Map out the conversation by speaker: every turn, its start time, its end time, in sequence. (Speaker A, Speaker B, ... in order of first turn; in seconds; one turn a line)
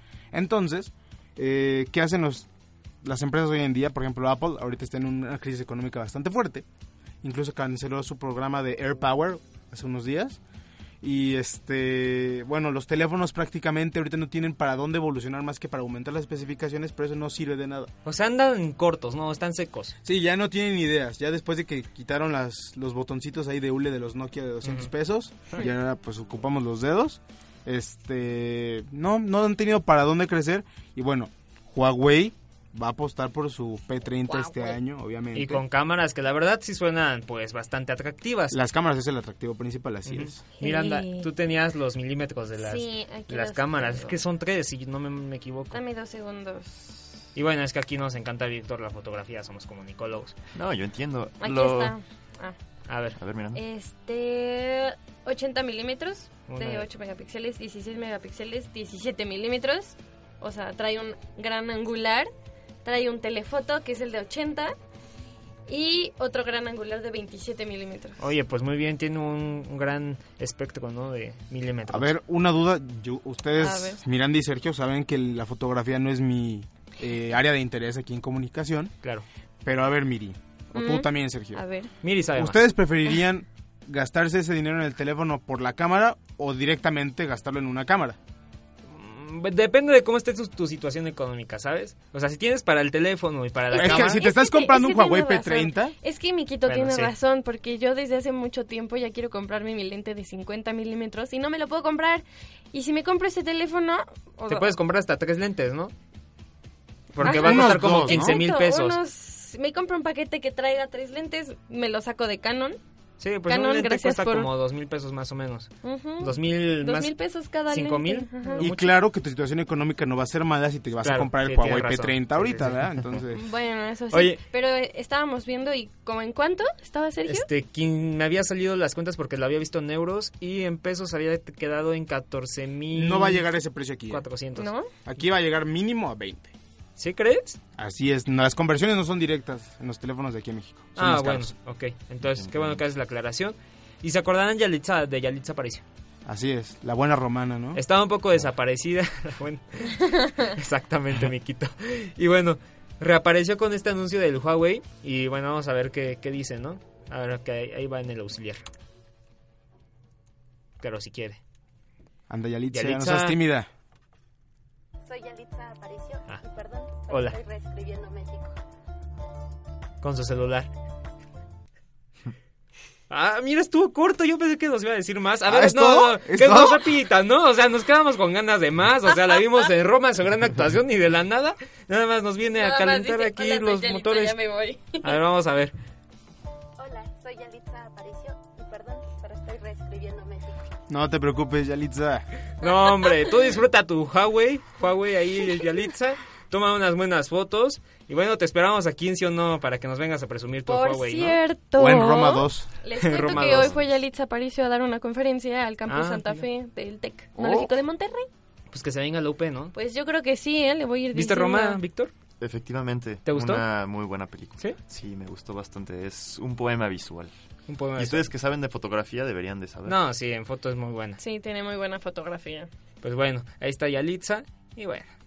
Speaker A: 0.3-2.5
Speaker A: 3.0-6.7
Speaker A: 7.2-10.4
Speaker A: 11.0-17.9
Speaker B: 18.1-20.0
Speaker A: 20.0-35.6
Speaker B: 24.6-24.9
Speaker C: 34.2-34.8
Speaker B: 35.3-38.6
Speaker A: 38.5-40.4
Speaker B: 40.1-45.8
Speaker C: 40.6-41.3
Speaker C: 42.6-44.2
Speaker C: 45.7-47.2
Speaker B: 47.4-50.4
Speaker D: 50.5-51.9
Speaker C: 51.4-52.6
Speaker B: 52.9-53.2
Speaker D: 53.2-53.6
Speaker C: 53.5-62.3
Speaker B: 56.5-56.9
Speaker C: 62.8-64.8
Speaker C: 65.7-68.2
Speaker B: 68.2-72.1
Speaker A: 71.9-78.9
Speaker C: 73.6-74.0
Speaker A: 79.6-81.6
Speaker C: 80.7-81.9
Speaker B: 82.0-82.6
Speaker A: 82.3-88.2
Speaker B: 88.9-94.2
Speaker C: 93.7-104.7
Speaker A: 93.7-96.0
Speaker B: 96.7-97.2
Speaker B: 104.5-105.9
Speaker B: 107.1-109.0
Speaker A: 107.2-108.4
Speaker C: 107.2-112.8
Speaker B: 113.2-117.2
Speaker C: 113.5-114.5
Speaker C: 115.8-118.7
Speaker B: 117.7-119.0
Speaker A: 118.6-123.4
Speaker B: 121.0-123.2
Speaker C: 123.3-127.5
Speaker B: 124.1-124.4
Speaker B: 127.2-133.5
Speaker A: 132.9-134.2
Speaker B: 134.1-134.7
Speaker C: 134.6-134.9
Speaker A: 135.1-136.5
Speaker B: 137.0-137.6
Speaker A: 137.8-141.5
Speaker B: 141.0-145.8
Speaker D: 142.3-142.8
Speaker A: 146.2-147.8
Speaker B: 147.8-158.7
Speaker B: 160.8-161.4
Speaker A: 162.3-163.7
Speaker B: 162.7-163.4
Speaker E: 165.1-168.6
Speaker B: 167.1-167.4
Speaker B: 170.0-170.7
Speaker B: 173.1-184.4
Speaker A: 175.5-176.9
Speaker C: 182.6-185.2
Speaker B: 185.0-185.7
Speaker E: 186.8-190.7
Speaker A: 190.9-192.3
Speaker B: 192.6-201.4
Speaker C: 192.6-193.4
Speaker C: 200.7-208.3
Speaker A: 201.8-202.7
Speaker B: 203.0-203.9
Speaker B: 205.9-206.4
Speaker A: 207.4-207.7
Speaker B: 208.7-209.7
Speaker C: 209.7-211.8
Speaker B: 211.1-212.1
Speaker D: 212.4-217.3
Speaker B: 213.3-213.6
Speaker B: 217.7-218.3
Speaker D: 218.0-220.0
Speaker B: 219.8-221.2
Speaker C: 221.2-222.7
Speaker B: 223.0-225.1